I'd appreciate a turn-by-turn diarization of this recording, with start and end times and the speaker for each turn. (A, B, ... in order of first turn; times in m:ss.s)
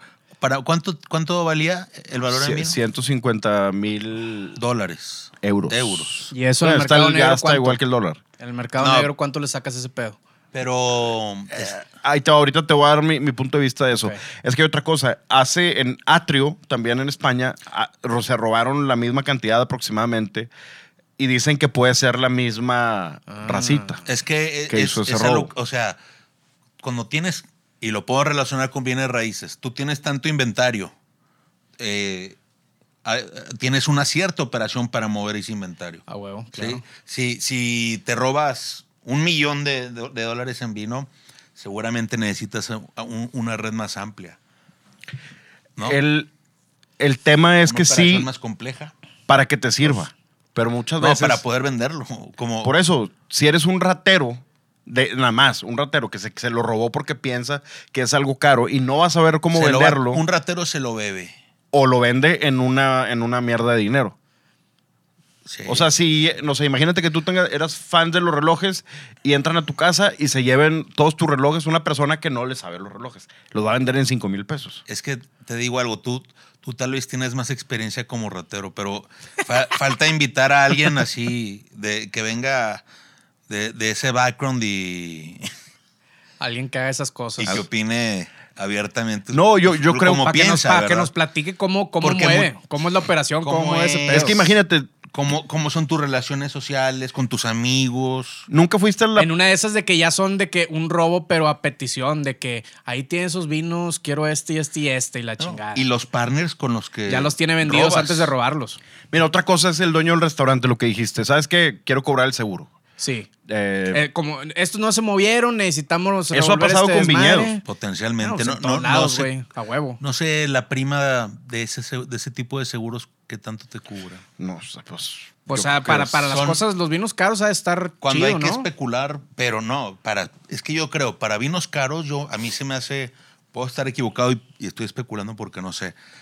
0:00.4-0:02.8 A
0:02.3-0:04.6 B
0:04.6-0:06.3 A
0:05.4-0:08.2 B
0:06.3-0:07.8 C
0:08.4-0:10.2 C
0:08.8-0:09.1 A
0:10.5-0:11.8 A
0:11.5-0:20.5 B
0:21.2-0:24.0 B
0:23.3-0:24.0 C
0:24.1-0:26.0 A
0:24.7-0:25.5 B
0:26.8-0:30.9 A
0:31.8-0:32.4 A
0:33.0-0:44.4 A
0:36.1-0:36.8 C
0:45.8-0:46.3 B
0:47.0-0:48.3 B
0:47.6-0:48.9 A
0:49.3-0:51.4 B
0:51.0-0:52.7 A
0:52.6-1:00.2 B
0:59.5-1:01.3 A
1:01.7-1:04.2 B
1:05.4-1:05.9 A
1:05.7-1:14.8 B
1:14.9-1:22.8 A
1:23.5-1:25.5 A
1:26.4-1:27.6 C
1:27.4-1:31.1 A
1:29.3-1:30.4 B
1:30.3-1:34.4 C
1:32.0-1:32.5 A
1:33.4-1:34.6 A
1:34.1-1:34.9 B
1:35.1-1:38.5 A
1:38.5-1:39.3 B
1:39.2-1:45.8 C
1:45.4-1:48.3 A
1:47.1-1:48.8 C
1:49.1-1:52.7 B
1:53.0-1:53.3 C
1:53.5-1:54.0 B
1:53.9-1:57.6 C
1:56.3-1:57.6 B
1:57.6-1:59.3 A
1:58.2-2:00.0 C
2:00.0-2:04.2 A
2:04.4-2:06.3 B
2:05.5-2:08.7 C
2:06.3-2:06.6 A
2:08.0-2:16.0 A